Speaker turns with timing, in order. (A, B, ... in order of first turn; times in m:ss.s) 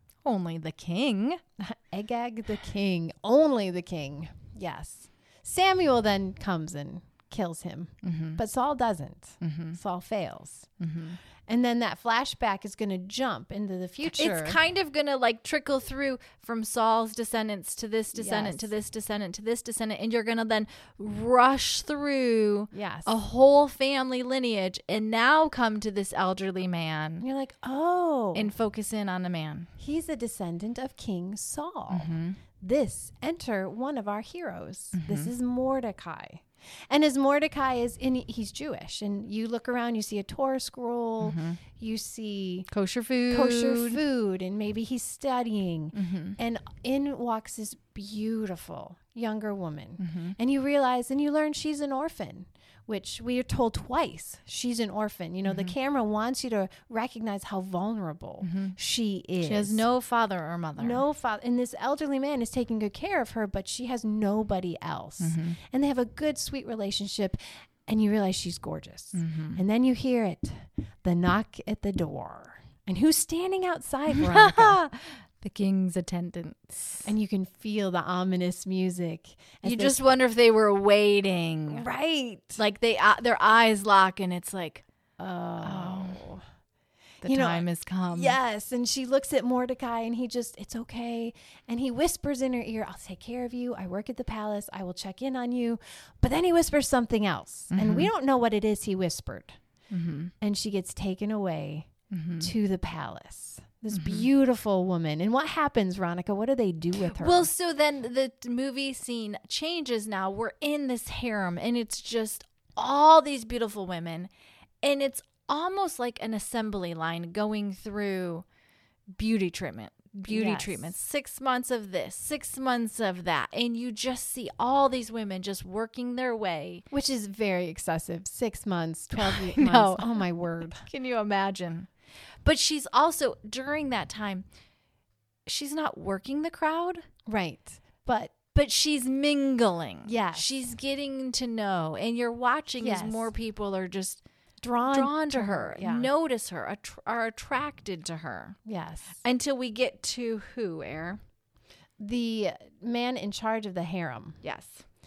0:00.2-0:01.4 A
0:01.6-0:10.7 B
0:08.0-0:08.4 A
0:09.4-0:09.8 A
0:10.8-0:11.2 A
0:11.5-0:14.6 B
0:14.0-0:27.2 A
0:18.1-0:18.7 B
0:22.7-0:23.1 B
0:27.2-0:28.5 B
0:28.3-0:29.7 A
0:29.8-0:42.7 B
0:31.9-0:32.4 A
0:34.9-0:35.3 A
0:41.2-0:41.6 A
0:42.7-0:44.0 A
0:43.3-0:59.8 B
0:45.9-0:46.4 A
0:50.0-0:50.4 A
0:55.5-0:55.7 A
0:58.4-0:58.7 A
0:59.4-1:01.0 A
1:00.8-1:14.8 B
1:05.2-1:05.6 A
1:09.1-1:09.6 A
1:14.1-1:17.0 A
1:17.0-1:20.0 B
1:19.6-1:21.8 A
1:21.7-1:22.6 B
1:22.6-1:24.8 A
1:25.2-1:26.4 B
1:25.6-1:26.2 A
1:27.2-1:28.4 A
1:27.2-1:39.6 B
1:37.7-1:38.1 A
1:39.9-1:40.3 A
1:40.4-1:47.5 B
1:42.1-1:42.5 A
1:43.9-1:44.3 A
1:47.0-1:54.3 A
1:54.8-1:58.4 A
1:59.1-2:06.8 A
2:00.3-2:00.9 B
2:06.9-2:10.8 B
2:09.2-2:10.2 A
2:10.8-2:11.9 A
2:12.4-2:14.4 A
2:15.4-2:17.0 A
2:17.3-2:18.3 B
2:18.5-2:24.2 A
2:20.0-2:20.5 B
2:22.8-2:23.3 B
2:24.6-2:26.1 B
2:24.9-2:28.6 A
2:28.6-2:29.2 B
2:29.2-2:31.2 A
2:32.0-2:34.4 B
2:34.4-2:34.8 A